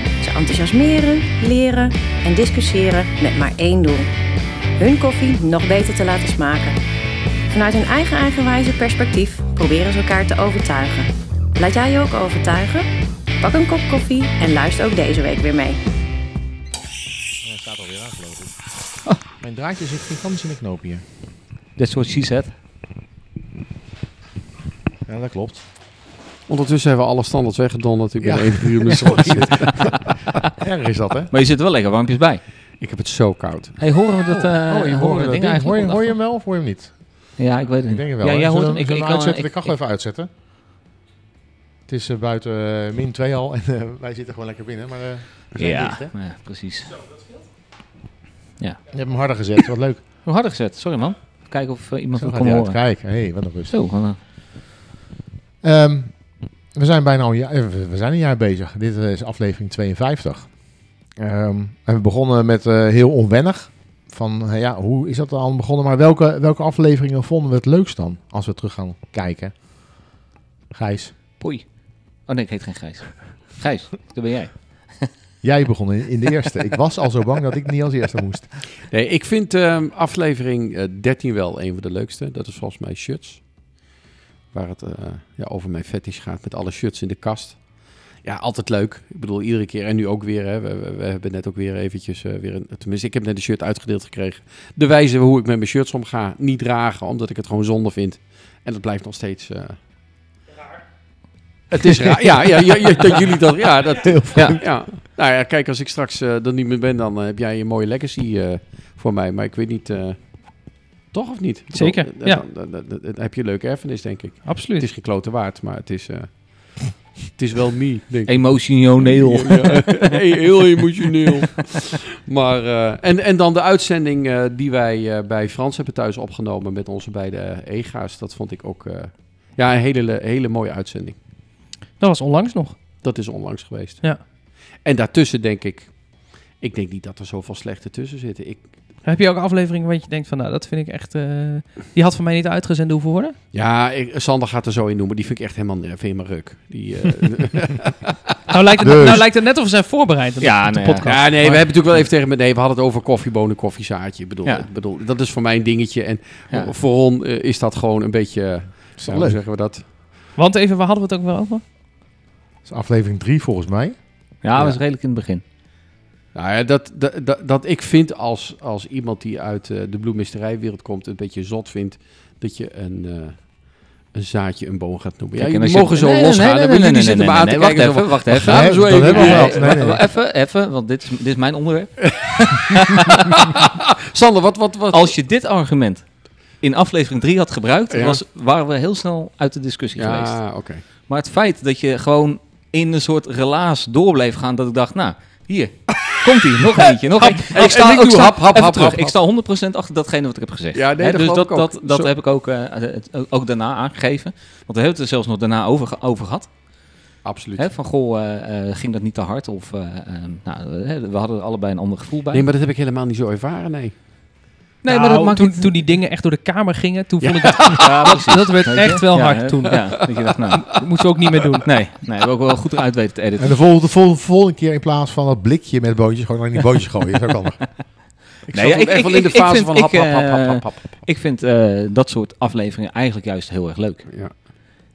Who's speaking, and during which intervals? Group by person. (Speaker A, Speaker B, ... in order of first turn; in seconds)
Speaker A: 0.2-4.1, 4.8-6.8, 7.5-12.9, 13.4-15.8
Speaker B: 17.4-18.5, 19.4-21.0, 25.1-25.6, 28.2-31.3, 34.3-40.3, 41.9-46.1, 48.9-50.0, 52.2-53.8, 55.6-69.7, 70.7-71.1, 75.4-78.6, 101.8-102.7, 104.0-104.8, 148.8-149.3, 159.0-159.4, 162.6-164.0, 178.4-180.0, 223.4-227.7
Speaker C: 21.8-22.5, 31.3-32.4, 33.8-36.2, 37.4-39.7, 45.6-47.0, 50.2-54.2, 71.4-75.1, 104.3-104.6, 118.3-120.2, 150.4-151.1, 164.4-165.4, 175.4-183.3, 184.9-206.5, 207.6-212.5, 214.8-215.7, 217.8-220.8, 221.6-223.6, 228.5-234.5
Speaker D: 26.5-30.0, 32.8-33.8, 78.9-83.8, 84.5-99.8, 101.7-131.2, 133.0-138.7, 143.5-148.1, 151.1-159.8, 164.5-164.8, 166.3-179.9, 182.2-185.1, 187.9-188.2, 190.0-190.8, 197.2-199.1, 200.7-202.1, 207.2-207.6, 212.3-213.9, 217.2-218.1, 228.5-231.0, 234.1-234.4
Speaker E: 111.7-112.4, 114.4-114.8, 132.0-132.8, 139.0-143.4, 148.5-151.7, 160.3-161.6, 214.8-220.0, 220.7-221.7